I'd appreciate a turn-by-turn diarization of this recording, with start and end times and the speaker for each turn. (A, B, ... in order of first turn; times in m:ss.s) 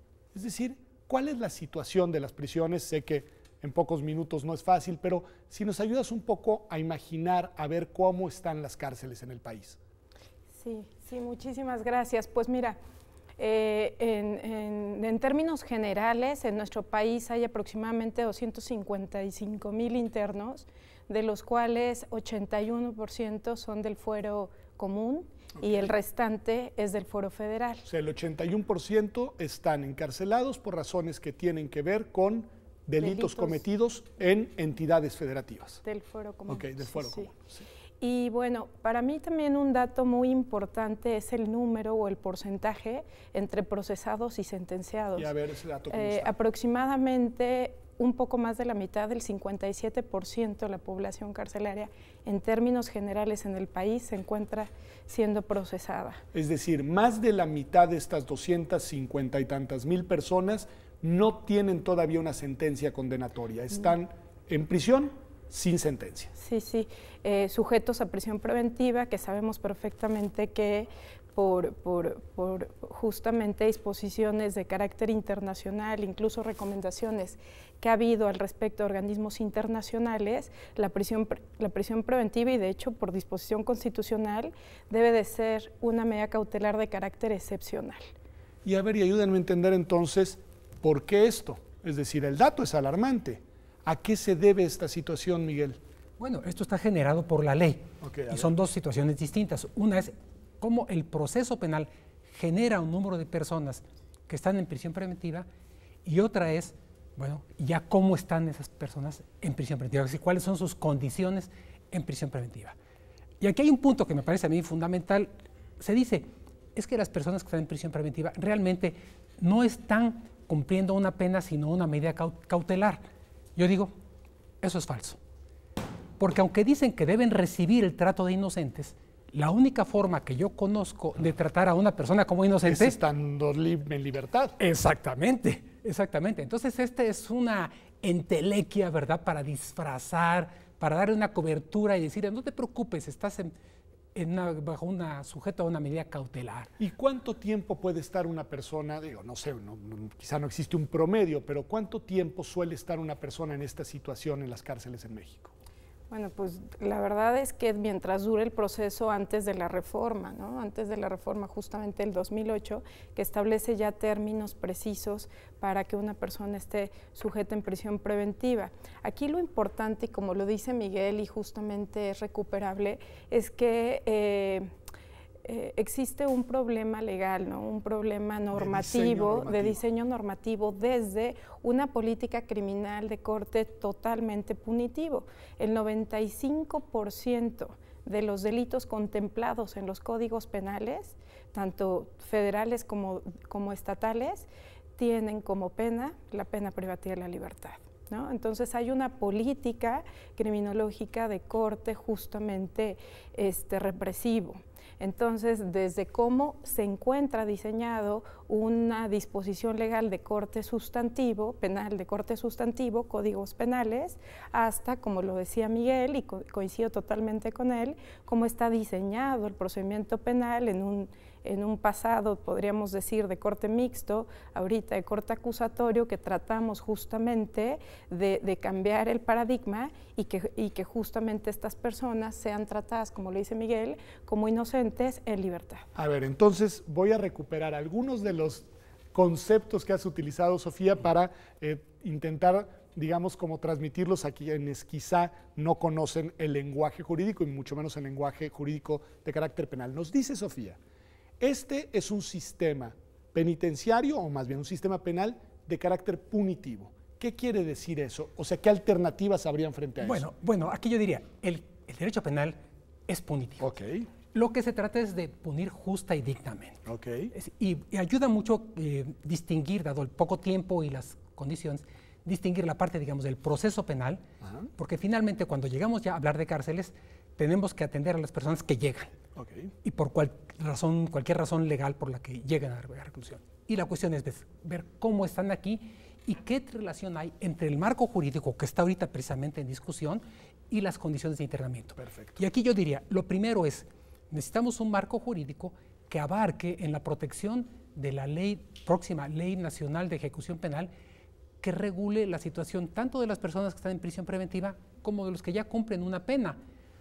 0:00.3-0:09.8 A
0:10.5-0:12.8 B
0:13.4-0:27.8 B
0:27.9-0:35.8 A
0:33.0-0:33.6 B
0:35.8-0:37.3 B
0:36.5-0:37.6 A
0:38.0-0:45.3 B
0:45.2-0:46.3 A
0:45.9-0:56.2 B
0:56.3-1:06.3 A
1:06.4-1:28.0 B
1:28.6-1:35.8 A
1:36.2-1:45.5 C
1:38.0-1:38.5 A
1:46.0-1:52.7 C
1:53.4-2:03.0 C
2:03.6-2:03.9 C
2:04.6-2:05.2 C
2:06.2-2:13.0 C
2:12.6-2:14.6 A
2:14.6-2:23.5 C
2:24.1-2:26.7 C
2:26.8-2:35.5 A
2:36.1-2:54.7 B
2:55.4-3:55.8 B
2:58.5-2:59.8 A
3:56.0-4:10.8 A
4:11.4-4:20.3 A
4:20.0-4:22.6 C
4:23.1-4:23.7 C
4:23.6-4:24.1 A
4:24.3-4:26.8 C
4:26.8-4:27.3 A
4:27.3-4:34.2 C
4:34.4-4:34.7 A
4:34.8-4:39.1 C
4:39.4-4:39.7 A
4:39.8-5:00.9 C
4:52.0-4:52.4 A
5:01.6-5:06.6 C